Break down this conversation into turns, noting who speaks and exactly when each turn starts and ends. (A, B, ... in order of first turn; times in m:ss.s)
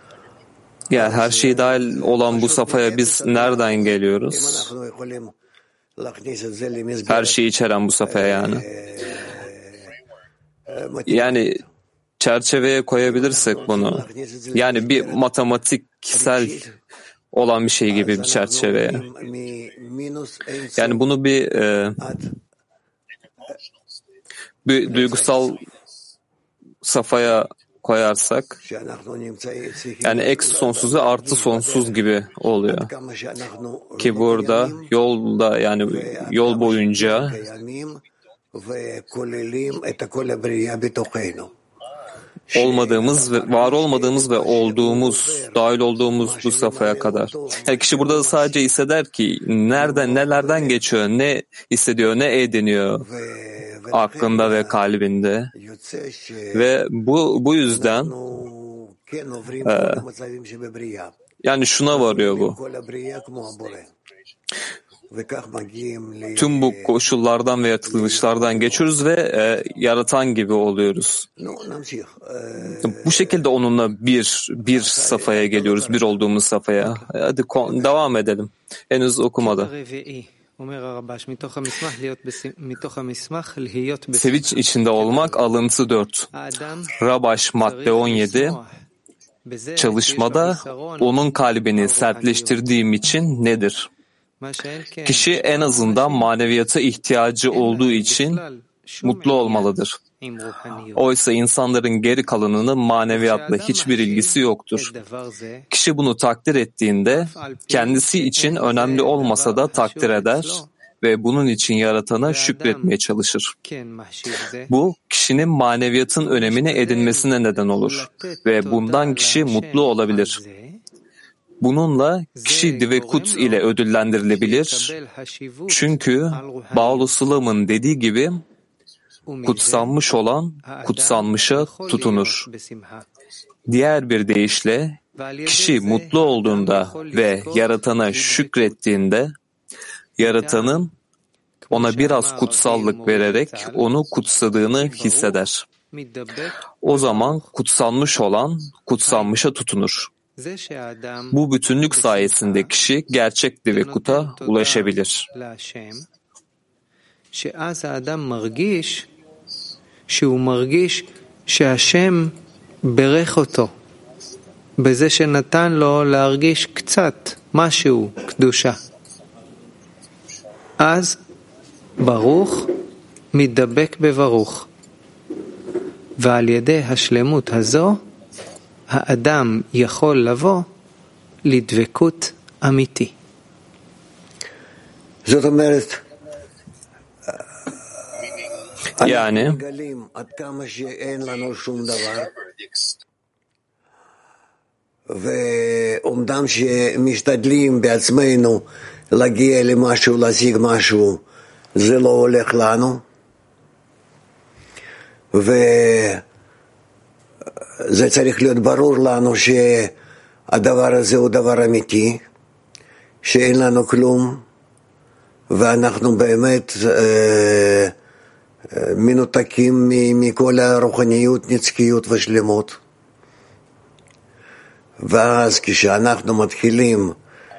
0:00.9-0:04.7 A
0:00.9-0:03.8 B
0:04.3-0:05.3 B
0:06.0-0:07.4 B
0:07.1-0:08.6 A
0:08.0-0:09.9 B
0:10.7-0:11.6 B
0:11.1-0:11.6 A
0:12.2-0:16.6 A
0:13.0-0:15.2 B
0:16.1-0:16.8 B
0:17.3-0:19.0 A
0:17.9-0:21.1 B
0:20.8-0:22.0 A
0:22.0-0:22.4 B
0:24.6-0:25.6 A
0:24.9-0:25.5 B
0:26.8-0:28.6 A
0:28.6-0:32.0 B
0:30.0-0:32.9 A
0:32.7-0:34.9 B
0:34.0-0:37.4 A
0:35.9-0:38.0 B
0:38.5-0:41.5 B
0:42.5-0:45.6 B
0:42.5-0:53.0 A
0:46.2-0:48.7 B
0:49.7-0:50.8 B
0:53.0-0:54.8 B
0:53.9-0:55.5 A
0:55.5-0:56.7 B
0:56.5-0:58.1 A
0:57.6-1:01.2 B
0:59.6-1:00.0 A
1:01.4-1:02.6 A
1:01.9-1:03.9 B
1:05.1-1:07.0 B
1:06.4-1:11.3 A
1:07.8-1:08.9 B
1:11.4-1:13.5 B
1:12.8-1:19.7 A
1:14.6-1:16.1 B
1:16.8-1:17.1 C
1:19.4-1:25.4 C
1:24.1-1:26.3 A
1:26.3-1:27.0 C
1:27.0-1:28.6 A
1:27.6-1:28.7 C
1:29.5-1:31.2 C
1:29.8-1:33.9 A
1:31.8-1:32.7 C
1:34.4-1:36.3 C
1:35.0-1:38.4 A
1:37.5-1:41.1 C
1:39.0-1:40.0 A
1:41.0-1:44.9 A
1:43.1-1:45.7 C
1:45.7-1:53.5 A
1:47.1-1:50.7 C
1:52.3-1:52.9 C
1:53.6-1:54.7 C
1:54.7-2:00.4 A
1:56.2-2:00.8 C
2:01.6-2:04.9 A
2:02.4-2:03.6 C
2:04.3-2:07.1 C
2:05.7-2:08.4 A
2:09.3-2:10.0 C
2:09.4-2:12.5 A
2:10.6-2:13.1 C
2:13.7-2:19.3 A
2:15.2-2:18.8 C
2:20.2-2:20.9 A
2:20.2-2:20.8 C
2:21.6-2:23.8 C
2:21.7-2:25.6 A
2:24.8-2:27.5 C
2:26.8-2:30.1 A
2:29.0-2:29.3 C
2:30.4-2:32.7 C
2:31.3-2:35.3 A
2:33.7-2:36.1 C
2:37.3-2:39.1 C
2:40.1-2:43.7 C
2:44.8-2:48.8 C
2:50.8-2:51.2 C
2:52.0-2:52.7 C
2:53.3-2:54.7 C
2:56.2-2:58.0 C
2:58.9-3:00.7 C
3:01.4-3:03.1 C
3:05.2-3:06.0 B
3:09.0-3:12.3 B
3:09.0-3:09.6 A
3:15.1-3:21.2 B
3:21.8-3:23.0 B
3:25.3-3:26.2 B
3:27.8-3:30.0 B
3:30.5-3:32.3 B
3:33.2-3:34.4 B
3:35.5-3:37.9 B
3:38.7-3:42.8 B
3:45.0-3:47.2 B